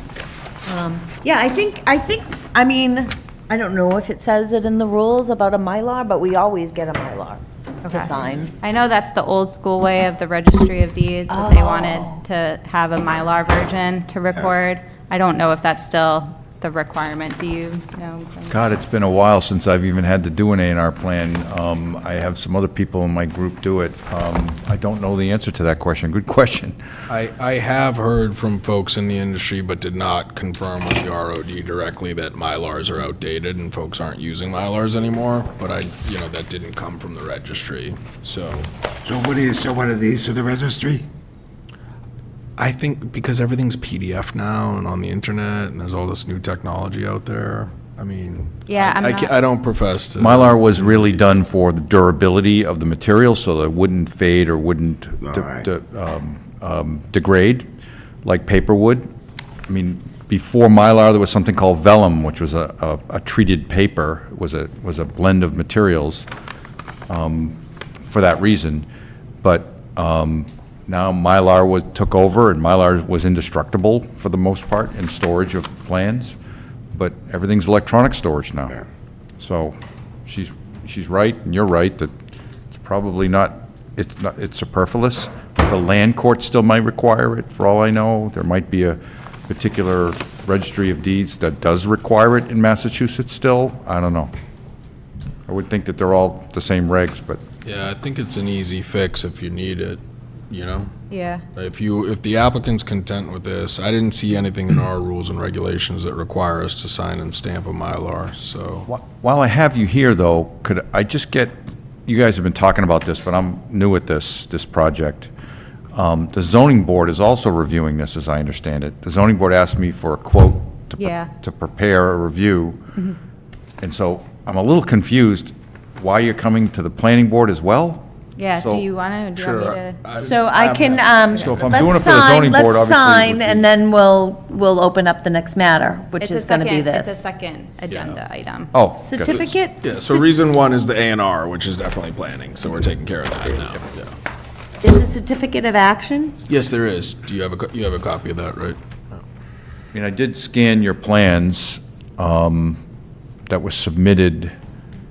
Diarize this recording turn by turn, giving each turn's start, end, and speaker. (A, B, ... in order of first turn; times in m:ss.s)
0:00.7-0:08.5 A
0:07.8-0:18.6 B
0:11.3-0:12.2 A
0:18.5-0:26.8 C
0:27.1-0:38.7 D
0:39.0-0:41.0 E
0:42.6-0:51.4 D
0:48.7-0:49.3 B
0:50.2-0:57.7 C
0:55.2-0:55.6 E
0:58.2-0:59.1 C
0:59.7-1:06.3 C
1:07.1-1:08.9 C
1:09.4-1:16.4 C
1:17.0-1:18.8 C
1:19.4-1:22.1 C
1:22.7-1:34.3 C
1:35.5-1:37.4 C
1:37.6-1:40.9 D
1:41.1-1:41.4 B
1:41.6-1:48.9 D
1:48.9-1:55.3 C
1:55.9-2:02.8 C
2:01.0-2:01.3 B
2:03.8-2:08.1 C
2:08.4-2:10.0 B
2:08.6-2:08.8 C
2:09.4-2:11.2 D
2:10.2-2:17.2 A
2:11.4-2:13.7 C
2:16.2-2:18.7 B
2:17.9-2:18.2 D
2:18.7-2:19.5 C
2:19.0-2:20.1 A
2:19.3-2:24.1 D
2:24.8-2:26.3 A
2:26.5-2:29.2 D
2:29.9-2:32.8 C
2:33.5-2:34.5 C